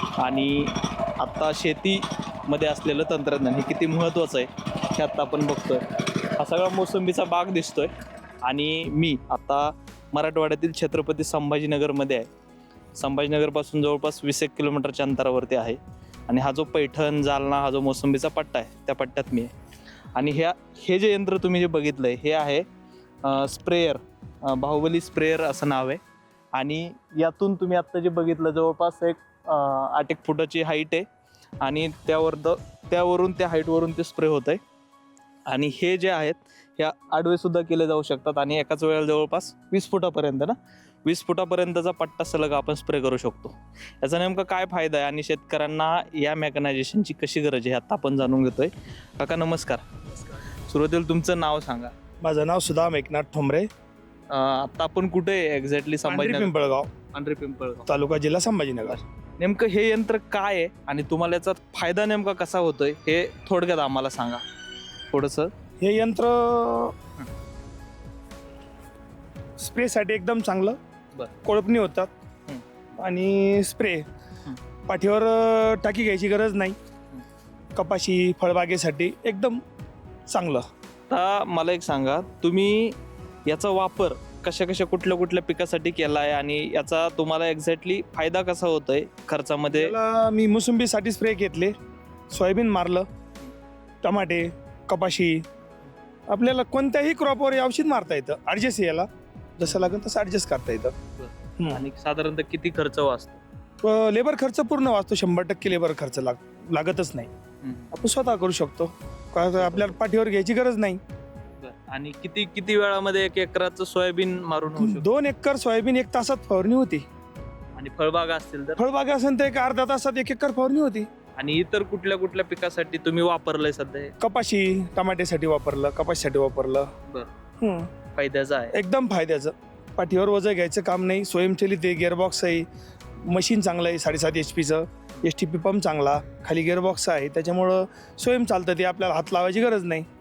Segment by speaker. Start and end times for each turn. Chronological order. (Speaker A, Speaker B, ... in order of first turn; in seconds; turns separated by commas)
Speaker A: 0.2-5.8, Speaker A: 6.3-7.9, Speaker A: 8.4-12.3, Speaker A: 12.9-19.5, Speaker A: 20.1-22.6, Speaker A: 23.2-26.0, Speaker A: 26.5-31.1, Speaker A: 31.6-34.6, Speaker A: 35.5-49.9, Speaker A: 50.7-51.9, Speaker B: 52.2-53.7, Speaker A: 54.3-56.5, Speaker B: 56.0-56.9, Speaker A: 57.1-57.9, Speaker B: 57.9-59.0, Speaker A: 58.8-64.4, Speaker A: 65.1-65.5, Speaker B: 65.8-66.9, Speaker B: 69.6-70.8, Speaker B: 71.4-72.1, Speaker B: 73.0-74.0, Speaker B: 74.9-76.8, Speaker B: 77.8-79.6, Speaker B: 80.3-80.7, Speaker A: 81.1-89.9, Speaker B: 89.7-91.7, Speaker B: 92.3-93.1, Speaker B: 94.0-95.4, Speaker B: 96.3-100.9, Speaker A: 99.6-100.0, Speaker A: 101.2-103.4, Speaker B: 101.6-101.8, Speaker B: 103.8-107.3, Speaker A: 107.6-108.1, Speaker B: 107.9-111.0, Speaker A: 109.5-110.0, Speaker A: 111.6-115.0, Speaker B: 114.8-117.0, Speaker A: 117.7-118.8, Speaker B: 118.8-121.1, Speaker A: 121.3-124.1, Speaker B: 124.2-126.9, Speaker B: 127.6-127.9, Speaker A: 128.1-128.8, Speaker B: 128.7-132.7, Speaker B: 133.2-140.1